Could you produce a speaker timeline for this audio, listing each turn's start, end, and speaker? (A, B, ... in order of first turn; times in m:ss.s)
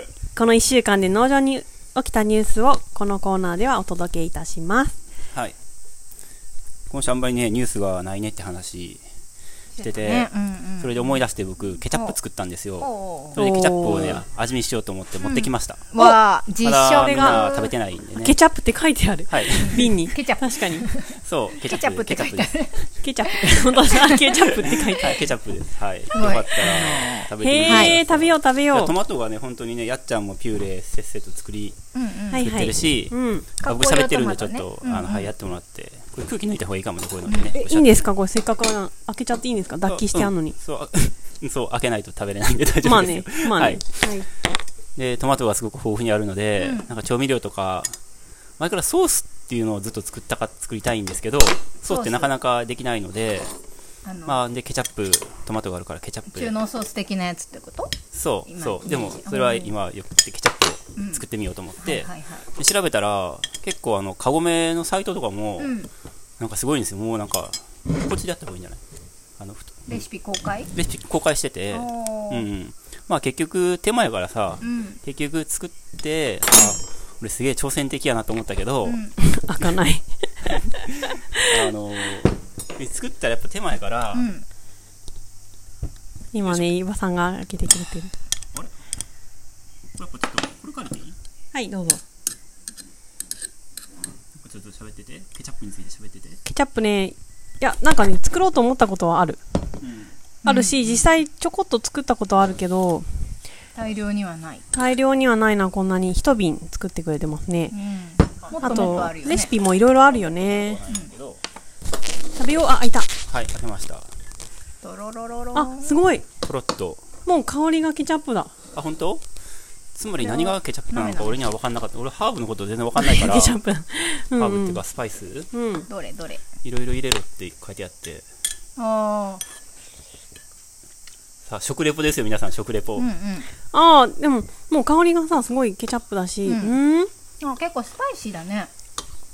0:00.4-0:05.0 A
0:06.9-0:09.0 B
0:09.7-0:11.2 C
0:09.8-0:15.9 B
0:11.9-0:12.2 C
0:12.8-0:13.4 C
0:13.4-0:14.2 A
0:15.2-0:17.7 C
0:16.6-0:18.4 B
0:17.0-0:17.5 A
0:18.2-0:20.9 A
0:19.3-0:20.0 B
0:19.6-0:25.2 C
0:21.2-0:22.6 B
0:23.0-0:25.2 A
0:24.7-0:31.8 B
0:26.1-0:28.0 C
0:27.4-0:28.9 A
0:31.9-0:32.5 C
0:32.3-0:33.5 A
0:32.4-0:38.1 B
0:33.6-0:35.3 C
0:37.3-0:37.5 C
0:37.6-0:40.6 A
0:39.8-0:43.8 B
0:42.8-0:44.3 A
0:45.0-0:48.0 B
0:46.6-0:46.9 C
0:48.6-0:53.5 B
0:51.8-0:52.3 C
0:54.0-0:54.4 C
0:54.2-0:56.6 B
0:56.3-0:59.7 C
0:58.1-1:05.8 B
1:01.0-1:01.2 C
1:01.8-1:02.5 C
1:05.6-1:05.9 C
1:06.4-1:08.8 B
1:09.4-1:10.0 B
1:09.9-1:10.7 C
1:10.7-1:19.0 B
1:11.7-1:12.5 C
1:14.6-1:15.0 C
1:18.9-1:19.1 C
1:19.2-1:20.9 A
1:21.4-1:24.3 B
1:24.1-1:24.4 C
1:26.3-1:28.1 A
1:26.4-1:26.7 B
1:30.0-1:31.2 B
1:31.5-1:32.0 A
1:34.4-1:36.4 B
1:36.5-1:39.4 A
1:39.8-1:40.1 B
1:40.4-1:41.1 C
1:40.4-1:43.1 A
1:43.8-1:44.6 C
1:44.7-1:47.8 A
1:47.7-1:49.5 C
1:48.4-1:49.1 B
1:48.6-1:50.8 A
1:49.8-1:51.4 B
1:52.4-1:53.1 A
1:53.3-1:54.1 B
1:54.8-1:56.0 C
1:55.6-1:56.2 A
1:56.4-1:57.0 B
1:57.2-1:58.5 A
1:58.7-1:59.2 B
2:00.0-2:03.6 B
2:00.2-2:00.5 A
2:00.9-2:01.4 C
2:03.0-2:04.8 A
2:04.4-2:05.5 B
2:05.5-2:05.9 A
2:05.9-2:06.4 C
2:06.6-2:08.2 B
2:08.8-2:09.4 C
2:11.5-2:13.1 B
2:13.0-2:13.5 C
2:13.7-2:17.1 A
2:16.5-2:16.8 C
2:17.4-2:18.7 C